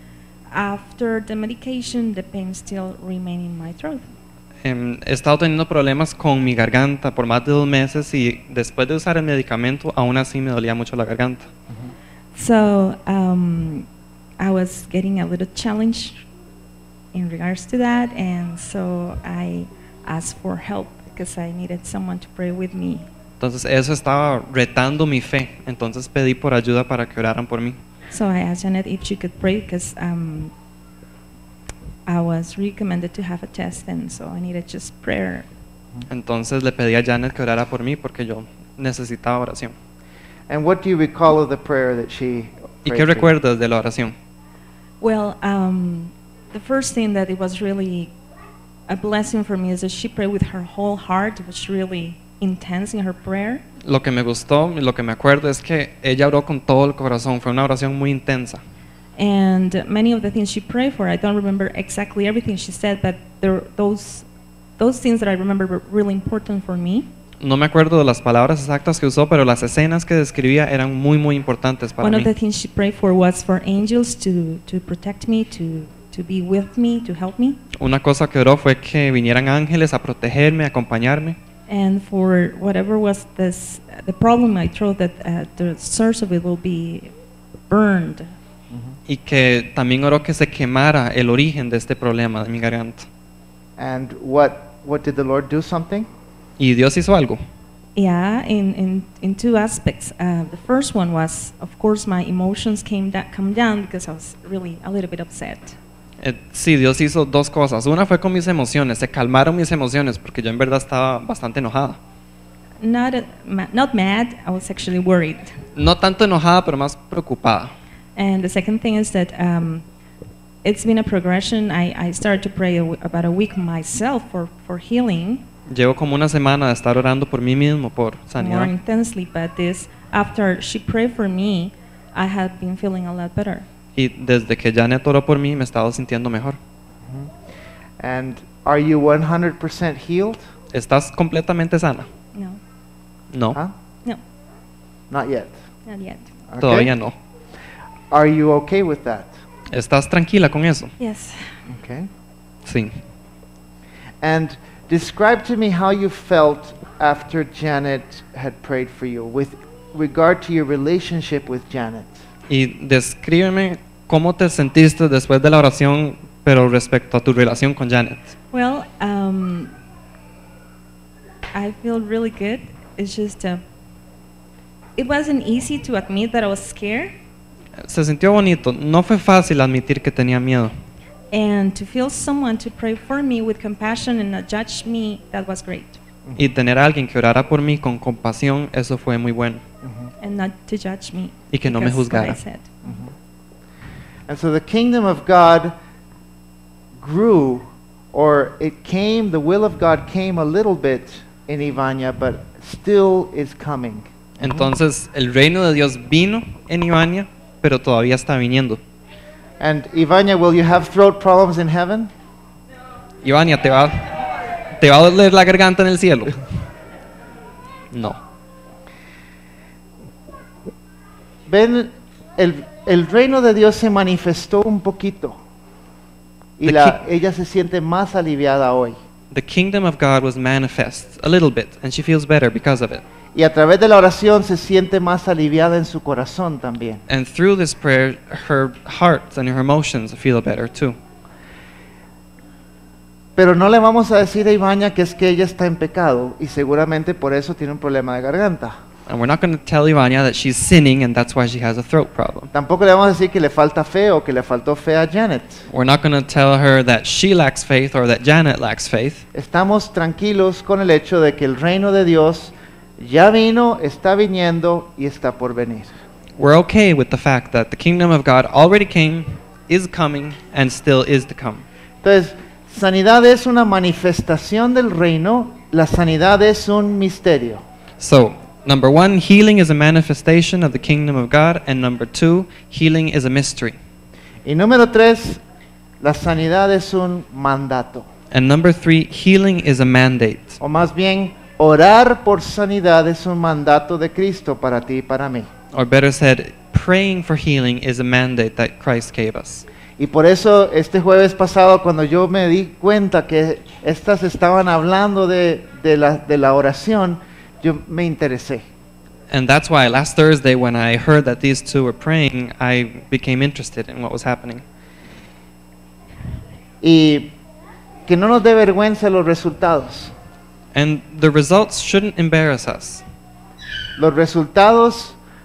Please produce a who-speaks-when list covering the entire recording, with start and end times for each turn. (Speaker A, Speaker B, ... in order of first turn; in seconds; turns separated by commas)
Speaker A: 0.5-4.0, Speaker B: 4.6-11.5, Speaker A: 12.3-13.9, Speaker A: 14.4-16.2, Speaker A: 17.1-23.1, Speaker B: 23.4-27.8, Speaker A: 28.1-30.5, Speaker A: 32.1-35.5, Speaker B: 36.1-39.8, Speaker C: 40.5-43.3, Speaker B: 42.9-44.1, Speaker A: 45.0-48.1, Speaker A: 48.9-53.6, Speaker B: 53.8-58.6, Speaker A: 59.2-64.3, Speaker A: 64.8-67.1, Speaker B: 67.4-72.3, Speaker A: 72.0-77.6, Speaker B: 77.8-81.4, Speaker A: 81.7-87.1, Speaker A: 87.7-88.3, Speaker B: 89.1-93.1, Speaker C: 93.8-96.1, Speaker B: 96.6-97.4, Speaker A: 98.0-105.8, Speaker B: 106.2-112.0, Speaker A: 112.8-115.6, Speaker B: 115.8-117.7, Speaker A: 118.2-119.8, Speaker A: 120.6-125.5, Speaker B: 125.7-128.7, Speaker A: 128.4-133.7, Speaker B: 133.9-136.6, Speaker C: 138.0-140.4, Speaker B: 140.7-142.1, Speaker A: 142.3-142.6, Speaker B: 143.3-143.6, Speaker C: 145.1-145.5, Speaker A: 145.9-146.3, Speaker C: 146.5-146.9, Speaker B: 146.6-147.1, Speaker C: 148.1-149.3, Speaker B: 149.7-150.9, Speaker A: 151.0-151.6, Speaker C: 151.7-152.1, Speaker B: 152.7-153.0, Speaker C: 154.2-162.2, Speaker B: 162.5-168.3, Speaker A: 168.5-169.8, Speaker A: 171.5-173.6, Speaker A: 175.0-177.1, Speaker B: 177.8-180.7, Speaker A: 181.3-186.0, Speaker B: 186.4-189.6, Speaker C: 189.8-190.1, Speaker A: 190.2-192.8, Speaker B: 191.5-192.4, Speaker C: 192.8-193.1, Speaker C: 194.3-195.7, Speaker C: 197.0-204.7, Speaker B: 204.4-208.8, Speaker C: 209.6-212.1, Speaker B: 213.2-214.1, Speaker B: 214.8-216.4, Speaker B: 217.9-218.2, Speaker C: 221.5-225.4, Speaker C: 226.6-229.0, Speaker B: 226.6-227.0, Speaker B: 229.3-233.0, Speaker C: 233.3-237.0, Speaker B: 237.1-241.0, Speaker C: 243.4-248.8, Speaker B: 249.1-252.5, Speaker C: 252.5-255.7, Speaker B: 255.7-259.3, Speaker C: 259.3-265.9, Speaker B: 266.4-271.6, Speaker C: 272.0-277.6, Speaker B: 278.0-283.8, Speaker C: 284.5-285.4, Speaker C: 286.0-288.1, Speaker B: 288.3-290.6, Speaker C: 290.6-295.5, Speaker B: 295.7-299.7, Speaker C: 300.0-308.6, Speaker B: 309.3-314.6, Speaker C: 316.8-317.3, Speaker C: 318.1-320.1, Speaker B: 320.7-323.0, Speaker C: 324.0-325.2